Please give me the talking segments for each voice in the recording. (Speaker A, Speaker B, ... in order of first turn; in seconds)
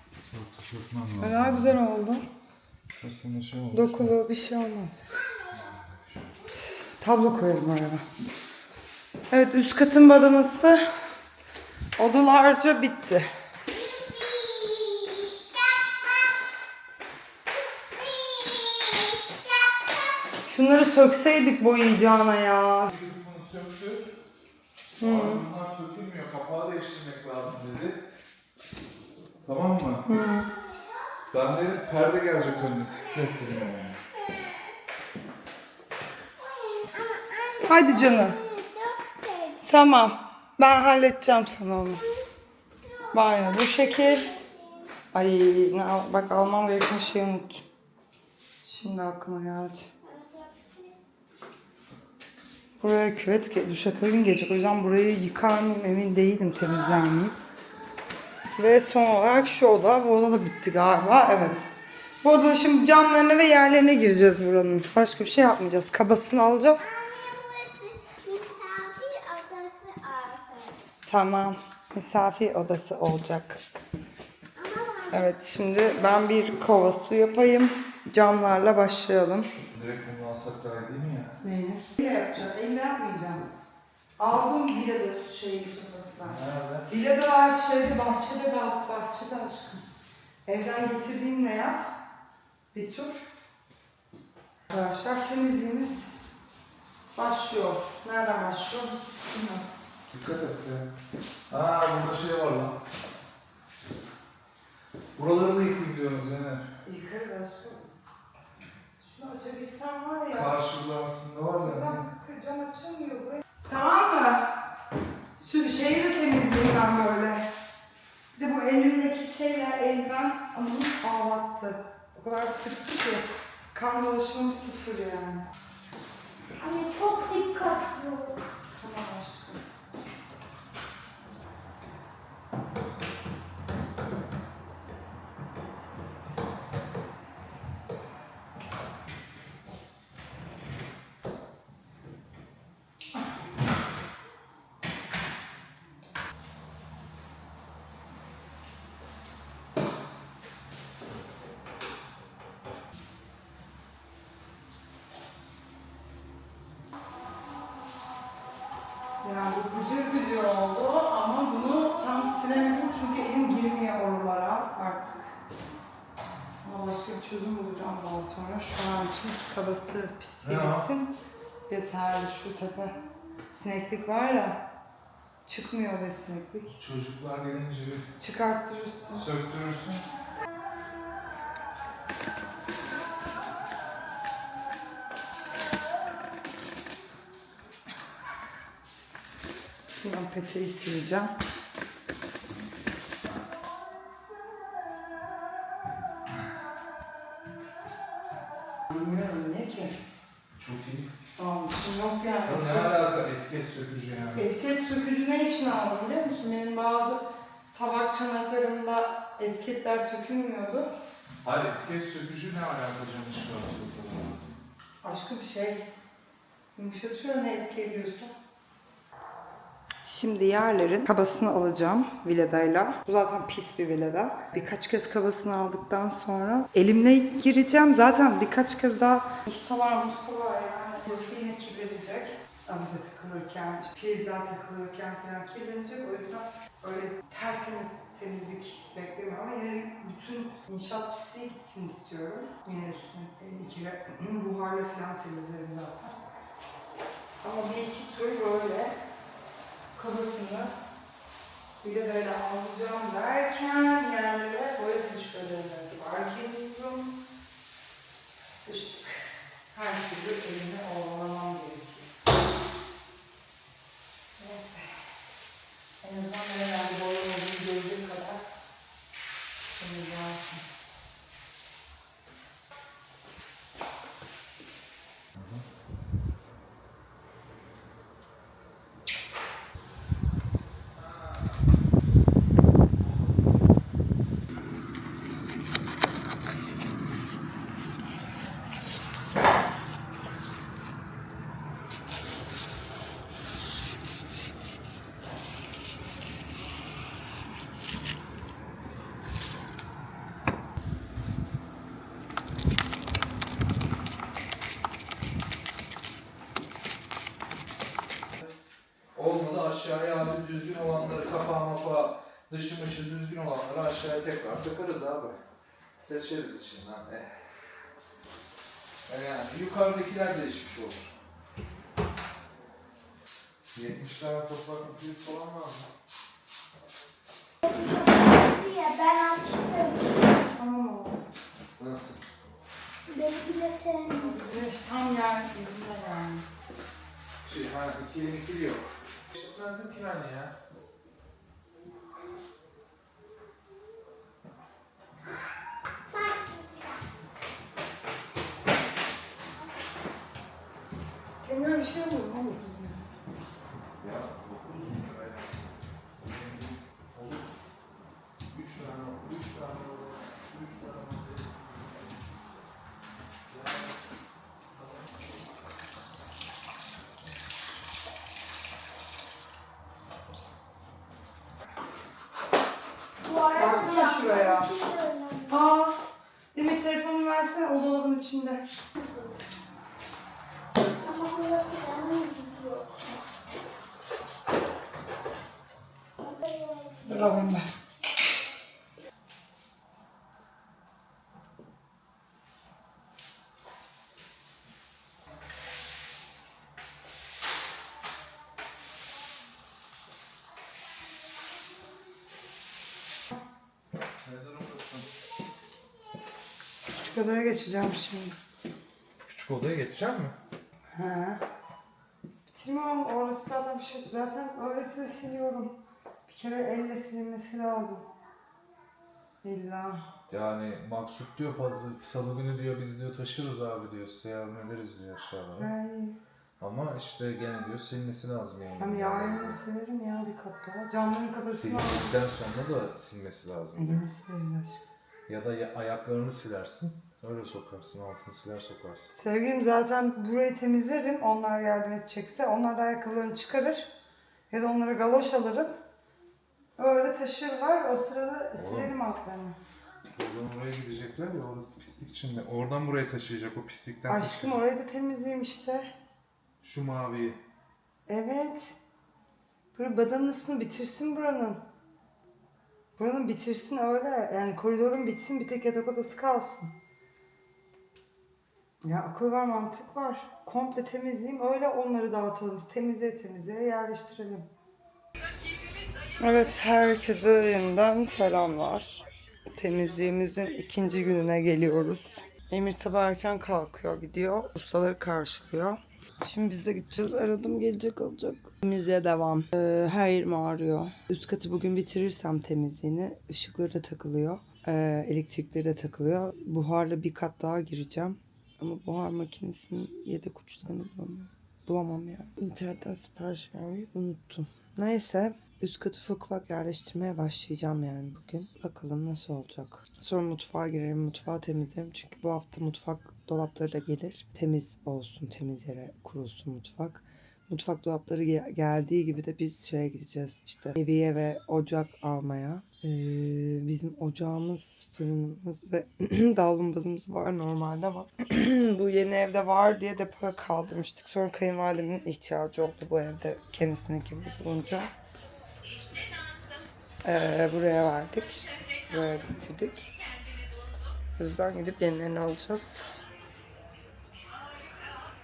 Speaker A: 0.3-1.8, 2.9-4.2, 5.5-6.3, 22.9-24.1, 25.0-28.0, 29.4-30.1, 31.3-34.0, 79.7-81.3, 86.2-86.9, 100.1-100.9, 101.5-102.8, 105.2-106.7, 110.3-112.0, 170.4-170.9, 176.8-178.1, 179.1-180.0, 200.6-201.1, 202.4-204.4, 211.4-214.4, 275.4-275.6, 309.1-315.4, 316.0-317.4, 319.1-321.1, 323.7-325.9, 331.8-332.2, 337.4-340.5, 354.0-357.5, 358.5-362.2, 363.5-364.0, 364.6-365.2, 404.2-405.1, 409.2-410.4, 420.3-425.7, 426.6-429.6, 431.5-434.0, 435.3-439.1, 448.6-448.9, 450.1-454.6, 456.6-457.4
Speaker B: 1.2-2.2, 3.7-5.1, 7.0-8.0, 9.3-10.8, 12.0-13.3, 20.4-22.9, 25.0-25.4, 30.1-30.5, 37.6-38.4, 39.6-42.0, 43.1-44.3, 45.1-47.6, 48.6-49.9, 52.8-57.4, 58.6-61.7, 62.2-66.9, 71.0-73.6, 75.1-79.5, 81.4-83.5, 84.2-89.8, 90.5-92.0, 92.7-93.3, 94.7-96.2, 97.1-99.7, 106.8-107.9, 109.0-110.6, 111.6-114.5, 115.3-117.5, 118.3-125.5, 128.8-129.6, 159.2-165.3, 166.6-171.1, 171.7-173.0, 173.5-174.6, 175.4-176.8, 178.2-179.2, 189.8-191.3, 198.9-200.0, 201.3-203.0, 204.3-210.9, 215.0-215.8, 216.7-218.3, 220.0-246.1, 247.4-248.9, 249.9-250.7, 251.8-257.1, 258.5-262.1, 264.4-264.9, 266.0-268.4, 269.7-270.6, 330.5-331.2, 334.1-336.5, 351.4-353.0, 373.5-374.7, 375.5-376.0, 376.5-378.6, 387.0-387.7, 406.8-408.4, 410.9-411.4, 412.5-418.1, 419.4-420.1, 425.6-426.2, 428.8-432.1, 433.7-434.8, 439.1-443.9, 444.5-445.7, 446.8-449.6, 454.1-455.9, 458.1-458.8, 459.7-461.6, 462.9-466.7, 468.8-474.5, 476.2-534.9, 537.0-539.9, 541.2-542.9
Speaker C: 14.6-15.9, 18.0-19.9, 34.2-34.7, 36.4-39.6, 42.9-44.9, 50.1-51.0, 66.9-70.8, 74.6-75.2, 126.6-128.4, 327.6-330.4, 333.1-334.5, 346.1-346.9, 373.2-375.6, 381.0-383.0, 386.2-387.5